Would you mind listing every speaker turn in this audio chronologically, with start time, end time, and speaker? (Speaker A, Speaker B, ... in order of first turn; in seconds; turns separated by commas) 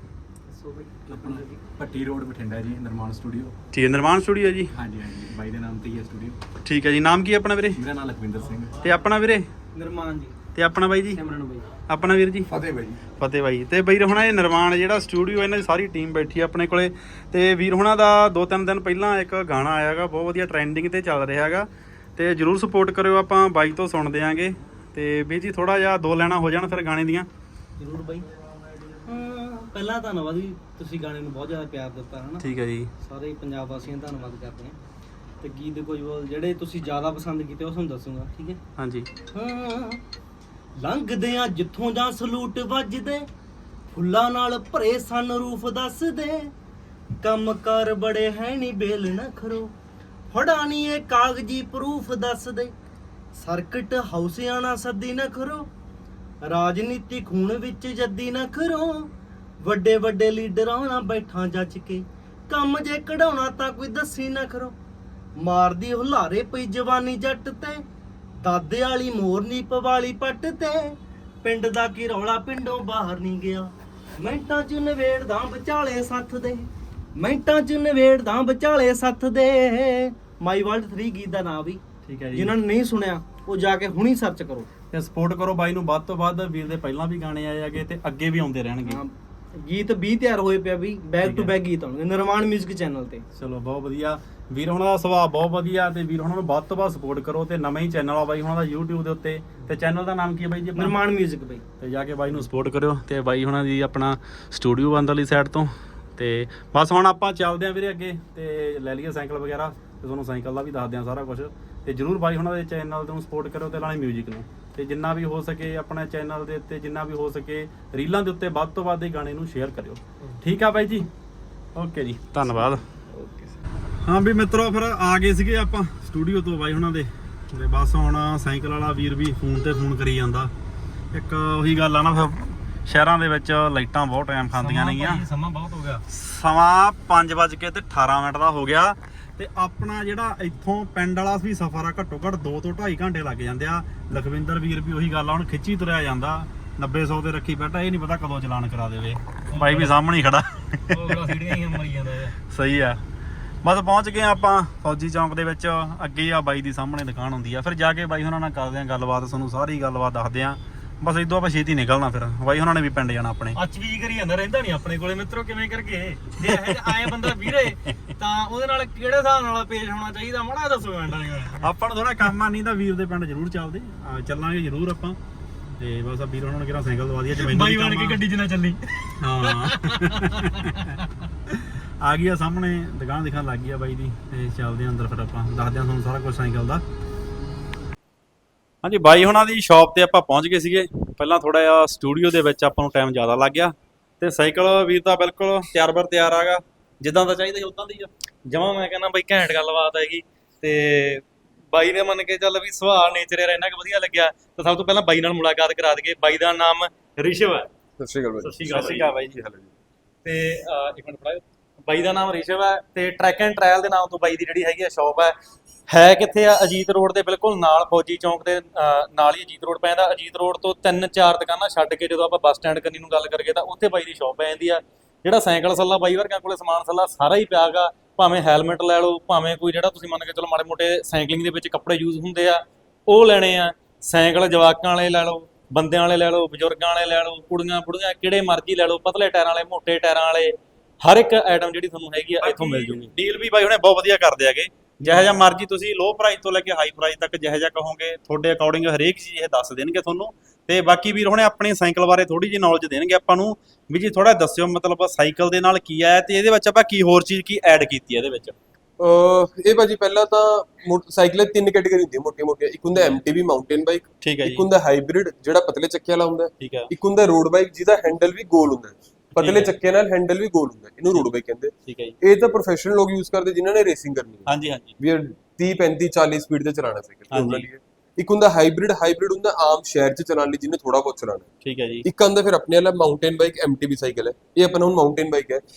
Speaker A: 0.5-1.6, Speaker B: 1.1-3.5, Speaker C: 3.7-4.7, Speaker B: 4.7-6.4, Speaker C: 6.6-7.8, Speaker B: 7.8-8.8, Speaker C: 8.8-9.4, Speaker A: 9.7-10.3, Speaker C: 10.5-11.2, Speaker A: 11.1-11.7, Speaker C: 11.9-12.5, Speaker B: 12.5-13.0, Speaker C: 13.2-27.3, Speaker A: 27.8-28.3, Speaker A: 29.1-32.5, Speaker C: 32.4-32.9, Speaker A: 33.0-34.8, Speaker A: 35.4-38.6, Speaker C: 38.8-39.1, Speaker A: 39.3-40.0, Speaker A: 40.8-43.3, Speaker A: 43.9-46.5, Speaker A: 47.2-49.7, Speaker A: 50.3-52.7, Speaker A: 53.4-55.7, Speaker A: 56.4-59.1, Speaker A: 59.6-64.7, Speaker A: 65.4-67.8, Speaker A: 68.4-81.8, Speaker C: 82.0-82.5, Speaker A: 82.3-84.7, Speaker C: 84.9-89.0, Speaker A: 88.8-93.2, Speaker C: 91.2-91.5, Speaker C: 93.3-101.0, Speaker A: 100.7-101.6, Speaker C: 101.8-121.1, Speaker C: 121.7-122.8, Speaker B: 123.1-123.5, Speaker C: 124.0-130.5, Speaker C: 131.1-135.2, Speaker D: 134.6-136.0, Speaker C: 136.1-151.2, Speaker D: 149.5-149.9, Speaker D: 150.9-152.3, Speaker C: 152.5-153.0, Speaker C: 153.6-163.6, Speaker D: 163.6-171.7, Speaker C: 166.4-167.3, Speaker C: 171.6-175.2, Speaker C: 175.8-178.2, Speaker D: 177.4-179.1, Speaker C: 179.2-186.8, Speaker D: 179.6-180.8, Speaker C: 188.8-198.1, Speaker D: 198.5-207.7, Speaker E: 208.0-209.7, Speaker D: 208.4-209.1, Speaker C: 208.7-209.4, Speaker D: 210.2-215.3, Speaker D: 215.9-243.1, Speaker C: 242.4-258.6, Speaker D: 245.1-245.3, Speaker E: 259.0-274.5, Speaker C: 264.2-264.7, Speaker C: 266.6-266.9, Speaker C: 271.9-272.1, Speaker C: 274.5-274.9, Speaker E: 275.0-281.5, Speaker C: 277.3-277.6, Speaker C: 281.6-282.0, Speaker E: 282.0-285.6